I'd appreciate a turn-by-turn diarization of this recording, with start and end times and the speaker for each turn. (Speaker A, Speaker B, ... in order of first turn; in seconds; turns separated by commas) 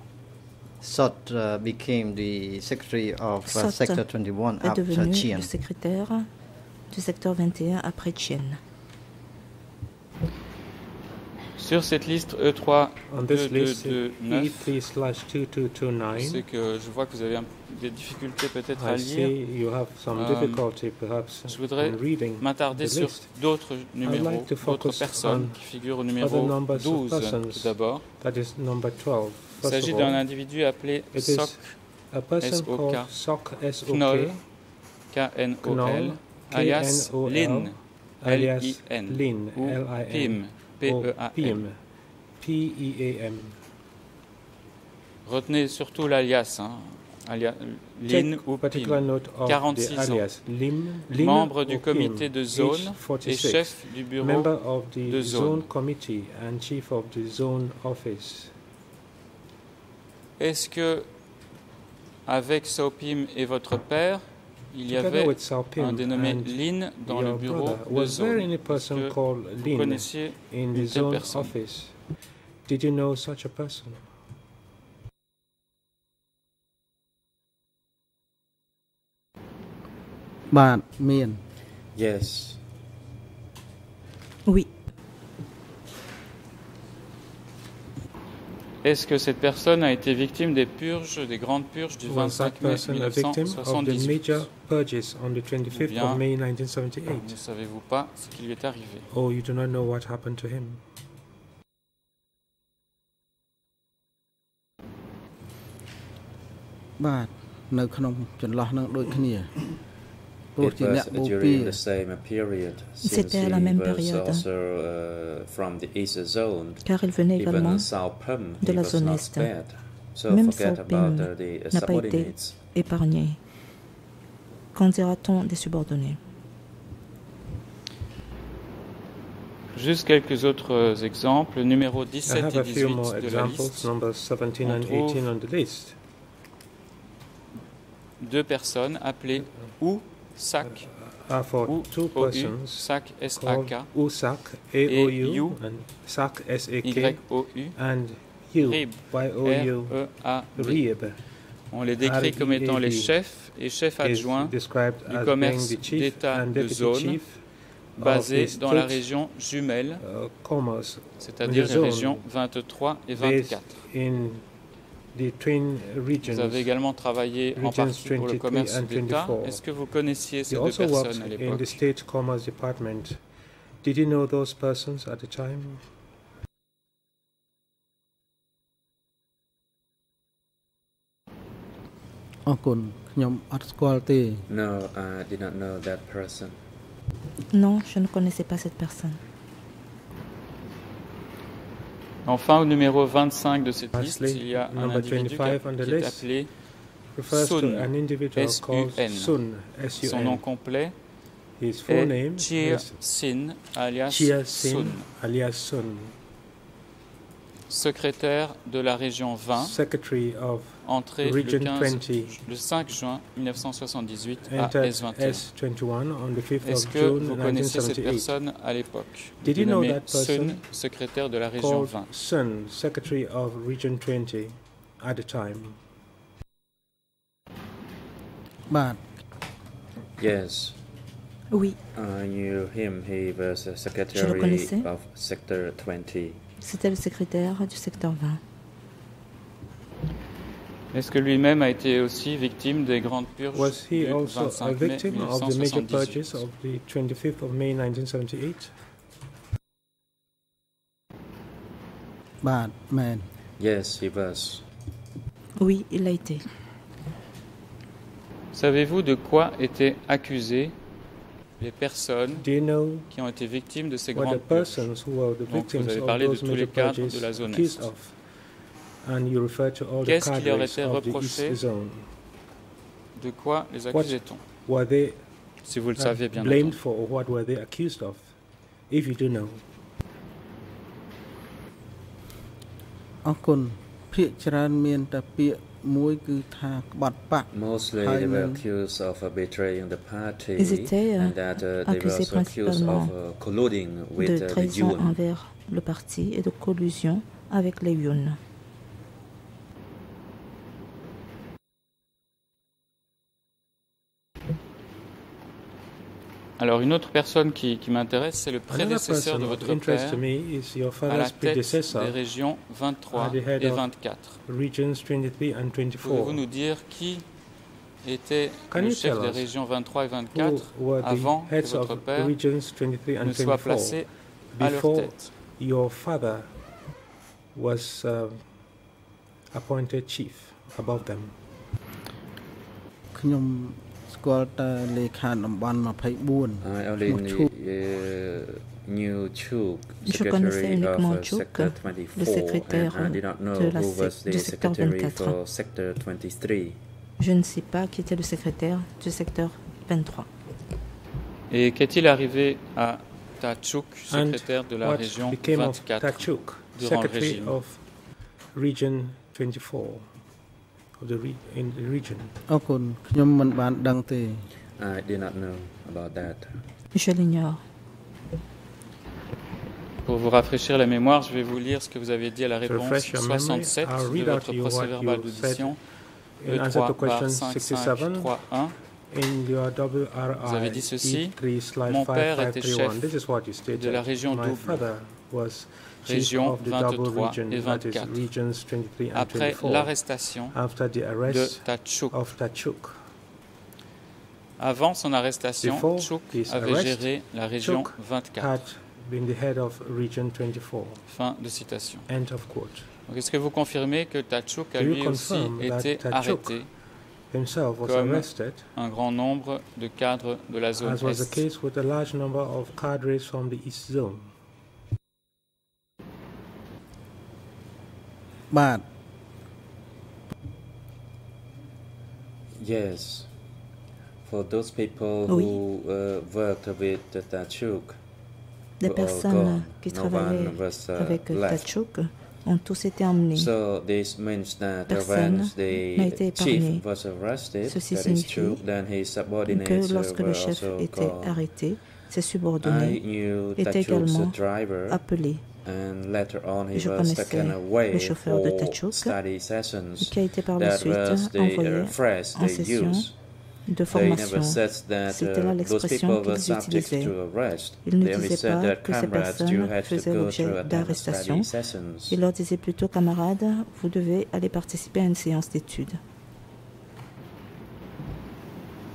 Speaker A: 0.8-5.5, Speaker B: 3.5-4.0, Speaker B: 4.6-6.3, Speaker B: 6.9-8.6, Speaker C: 11.6-14.7, Speaker D: 13.1-16.4, Speaker C: 16.1-19.4, Speaker D: 18.8-23.4, Speaker C: 20.1-20.6, Speaker C: 21.5-28.1, Speaker D: 24.0-30.2, Speaker C: 29.6-31.6, Speaker D: 31.1-34.4, Speaker C: 32.4-33.1, Speaker C: 33.9-34.4, Speaker C: 35.1-41.6, Speaker D: 35.6-41.8, Speaker D: 42.4-43.5, Speaker C: 45.3-50.3, Speaker D: 48.1-58.5, Speaker C: 51.1-55.7, Speaker C: 60.4-61.1, Speaker C: 62.3-71.5, Speaker D: 64.9-72.0, Speaker D: 72.7-74.1, Speaker E: 80.5-81.4, Speaker F: 81.9-82.6, Speaker B: 84.5-84.7, Speaker C: 88.8-94.5, Speaker D: 92.0-97.4, Speaker C: 95.7-96.2, Speaker C: 97.0-99.1, Speaker D: 99.1-100.8, Speaker E: 107.0-109.8, Speaker E: 110.6-111.8, Speaker F: 110.6-122.6, Speaker B: 113.0-114.4, Speaker B: 116.8-119.5, Speaker B: 120.3-123.4, Speaker B: 124.7-126.2, Speaker C: 129.7-133.9, Speaker D: 132.3-136.0, Speaker C: 134.6-135.3, Speaker C: 138.2-140.9, Speaker D: 140.6-151.2, Speaker C: 141.7-143.9, Speaker C: 144.9-145.6, Speaker C: 146.8-147.8, Speaker C: 148.6-150.8, Speaker C: 151.7-157.2, Speaker D: 152.0-153.2, Speaker D: 154.0-157.4, Speaker C: 158.0-160.0, Speaker D: 158.0-159.0, Speaker D: 160.0-162.2, Speaker C: 161.2-163.9, Speaker D: 163.2-164.4, Speaker D: 165.1-166.7, Speaker C: 166.2-171.8, Speaker D: 167.6-169.6, Speaker D: 170.5-173.2, Speaker D: 173.8-175.8, Speaker E: 182.5-184.4, Speaker F: 184.5-186.6, Speaker B: 187.5-189.2, Speaker C: 192.2-196.5, Speaker D: 193.9-196.3, Speaker D: 197.2-200.4, Speaker C: 197.3-199.3, Speaker C: 200.0-200.9, Speaker D: 201.6-203.0, Speaker C: 201.9-205.1, Speaker D: 204.1-206.2, Speaker C: 207.7-209.8, Speaker D: 209.6-212.4, Speaker C: 210.8-215.5, Speaker D: 214.4-218.3, Speaker C: 216.6-222.1, Speaker D: 219.4-220.7, Speaker D: 221.6-225.8, Speaker E: 228.7-229.0, Speaker F: 230.2-230.8, Speaker B: 231.5-231.8, Speaker F: 231.9-236.4, Speaker B: 234.1-234.9, Speaker B: 236.6-238.4, Speaker C: 240.9-246.5, Speaker D: 243.5-248.7, Speaker E: 252.4-253.3, Speaker F: 253.6-254.7, Speaker B: 255.6-256.4, Speaker C: 258.5-260.8, Speaker C: 261.6-262.5, Speaker D: 262.4-263.1, Speaker C: 263.1-267.9, Speaker D: 264.1-268.2, Speaker D: 269.0-272.1, Speaker C: 270.1-271.6, Speaker C: 273.2-274.4, Speaker D: 273.9-275.2, Speaker C: 275.6-276.8, Speaker D: 276.0-278.3, Speaker D: 278.9-279.6, Speaker E: 283.2-288.6, Speaker F: 287.5-295.2, Speaker B: 290.6-293.1, Speaker B: 294.2-298.4, Speaker C: 306.6-310.2, Speaker D: 308.7-312.2, Speaker C: 311.1-314.4, Speaker D: 313.1-313.9, Speaker D: 314.5-316.4, Speaker C: 316.0-317.3, Speaker C: 318.0-322.4, Speaker D: 318.7-319.5, Speaker D: 320.3-326.5, Speaker C: 323.2-325.3, Speaker D: 327.5-328.5, Speaker D: 329.5-331.4, Speaker E: 333.1-337.5, Speaker F: 336.6-346.8, Speaker B: 340.0-345.4, Speaker B: 347.2-350.3, Speaker C: 351.5-357.6, Speaker D: 354.1-357.8, Speaker D: 358.5-360.1, Speaker D: 361.0-362.3, Speaker E: 362.5-364.5, Speaker F: 364.8-366.6, Speaker B: 366.9-367.6, Speaker C: 370.1-375.8, Speaker D: 372.7-375.8, Speaker D: 376.4-378.4, Speaker C: 376.5-378.8, Speaker D: 379.1-393.0, Speaker C: 380.4-383.1, Speaker C: 383.7-384.9, Speaker C: 386.0-388.3, Speaker C: 389.1-390.6, Speaker C: 391.2-392.1, Speaker C: 394.6-398.6, Speaker D: 395.6-401.0, Speaker C: 401.1-402.1, Speaker D: 402.1-402.9, Speaker C: 403.1-406.7, Speaker D: 404.8-406.6, Speaker D: 407.3-408.7, Speaker C: 407.8-411.4, Speaker D: 410.8-414.3, Speaker E: 418.5-418.8, Speaker F: 422.6-423.3, Speaker F: 424.2-428.0, Speaker B: 425.3-425.6, Speaker B: 428.8-433.5, Speaker F: 428.8-431.7, Speaker F: 433.3-441.4, Speaker B: 434.9-436.8, Speaker B: 437.7-438.6, Speaker B: 439.5-445.4, Speaker F: 442.6-445.0, Speaker F: 445.6-453.1, Speaker B: 446.7-449.2, Speaker B: 450.0-453.1, Speaker B: 453.7-457.1, Speaker F: 453.9-462.2, Speaker B: 457.8-461.5, Speaker B: 462.1-466.0